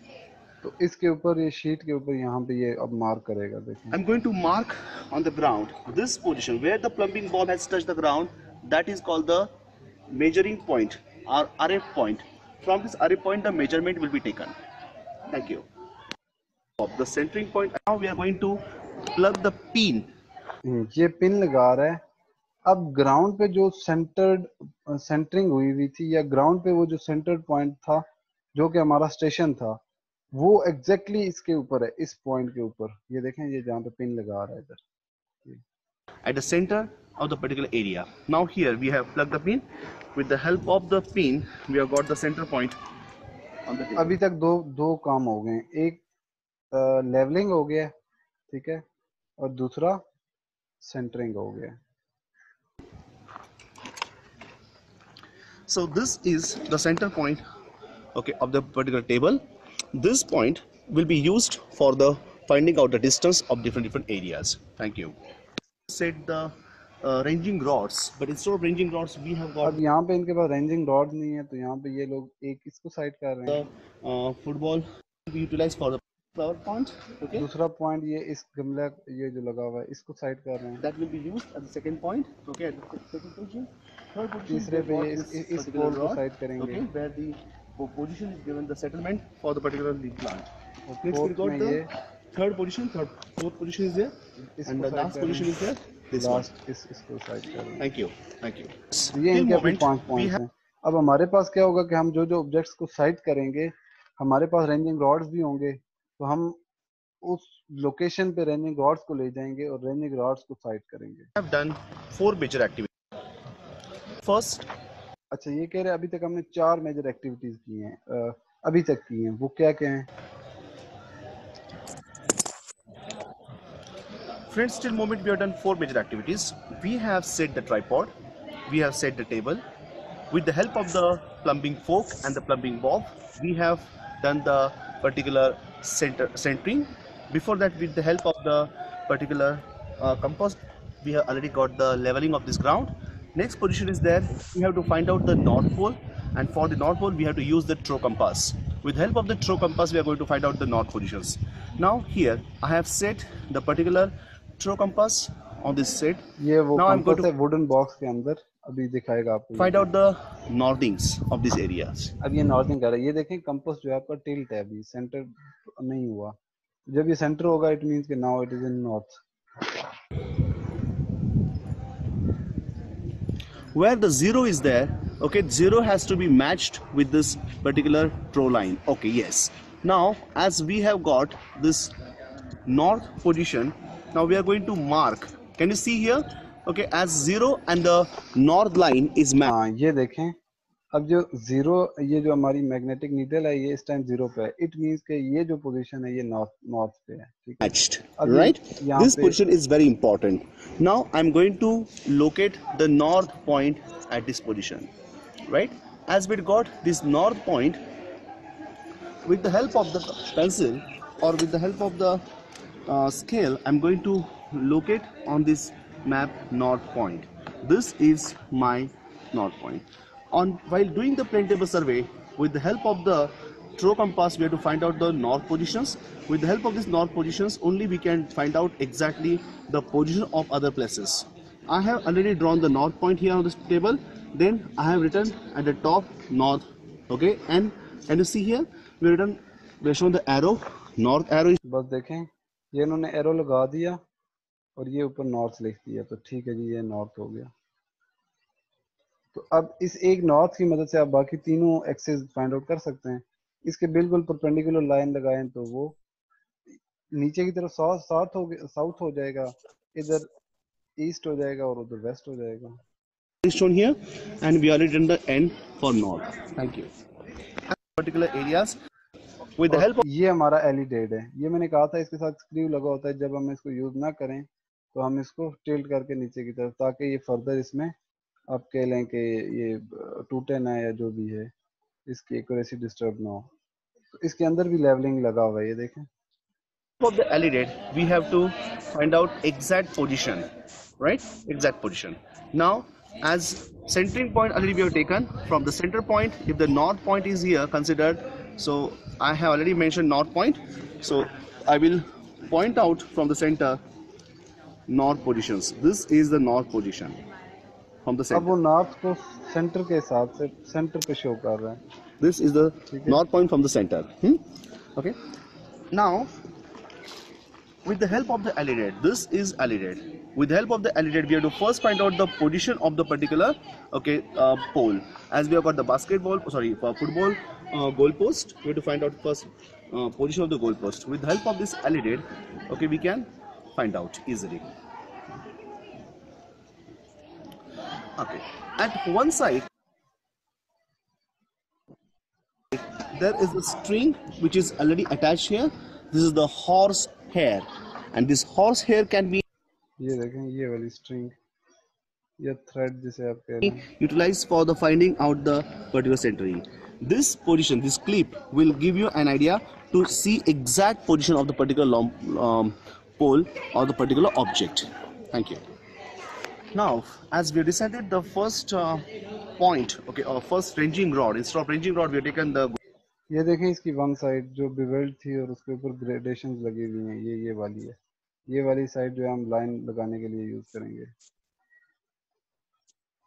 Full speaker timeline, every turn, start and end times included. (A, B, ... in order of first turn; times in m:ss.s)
0:00.6-0:04.0 A
0:03.9-0:09.5 B
0:10.1-0:14.6 B
0:15.3-0:15.6 B
0:16.8-0:20.1 B
0:20.6-0:22.0 A
0:22.6-0:29.8 A
0:30.3-0:34.8 A
0:36.2-0:42.8 B
0:43.6-0:44.1 B
0:44.0-0:46.0 A
0:46.7-0:47.9 A
0:48.5-0:48.8 A
0:49.4-0:50.0 A
0:50.8-0:51.8 A
0:55.7-0:57.4 B
0:58.1-0:59.4 B
0:59.9-1:05.2 B
1:05.9-1:09.8 B
1:09.6-1:13.6 A
1:13.5-1:17.4 B
1:17.3-1:20.8 A
1:20.8-1:30.5 B
1:24.5-1:26.8 A
1:30.9-1:31.9 A
1:31.0-1:36.4 B
1:34.4-1:35.5 A
1:36.2-1:37.8 A
1:37.8-1:40.4 B
1:39.1-1:46.6 A
1:47.2-1:51.3 A
1:51.4-1:52.9 B
1:54.2-1:54.6 B
1:55.3-2:00.1 A
2:04.5-2:08.1 B
2:08.7-2:09.6 B
2:10.3-2:37.3 B
2:36.4-2:39.9 A
2:39.6-2:42.1 B
2:42.2-2:46.4 A
2:46.9-2:49.2 A
2:53.7-3:01.9 B
3:02.6-3:09.5 B
3:09.4-3:10.4 A
3:10.9-3:19.4 A
3:17.6-3:24.9 B
3:25.5-3:27.8 B
3:29.2-3:32.2 B
3:32.8-4:01.6 B
4:01.6-4:04.0 A
4:04.8-4:07.5 A
4:09.3-4:15.9 A
4:17.1-4:20.3 A
4:21.0-4:22.8 A
4:23.4-4:26.9 B
4:27.7-4:28.8 B
4:29.6-4:30.0 B
4:29.7-4:37.9 A
4:38.5-4:41.5 A
4:42.0-4:43.5 A
4:44.1-4:46.1 A
4:47.0-4:50.5 B
4:51.0-5:03.8 B
5:04.9-5:07.2 B
5:08.0-5:08.5 B
5:08.3-5:11.8 A
5:12.2-5:14.4 B
5:12.9-5:13.2 A
5:15.9-5:16.3 B
5:17.8-5:34.7 B
5:38.2-5:39.6 B
5:42.7-5:49.4 B
5:50.0-5:51.3 A
5:52.4-5:53.8 A
5:53.6-6:05.6 B
6:06.7-6:09.1 B
6:09.6-6:12.8 B
6:13.3-6:18.0 A
6:18.5-6:21.1 A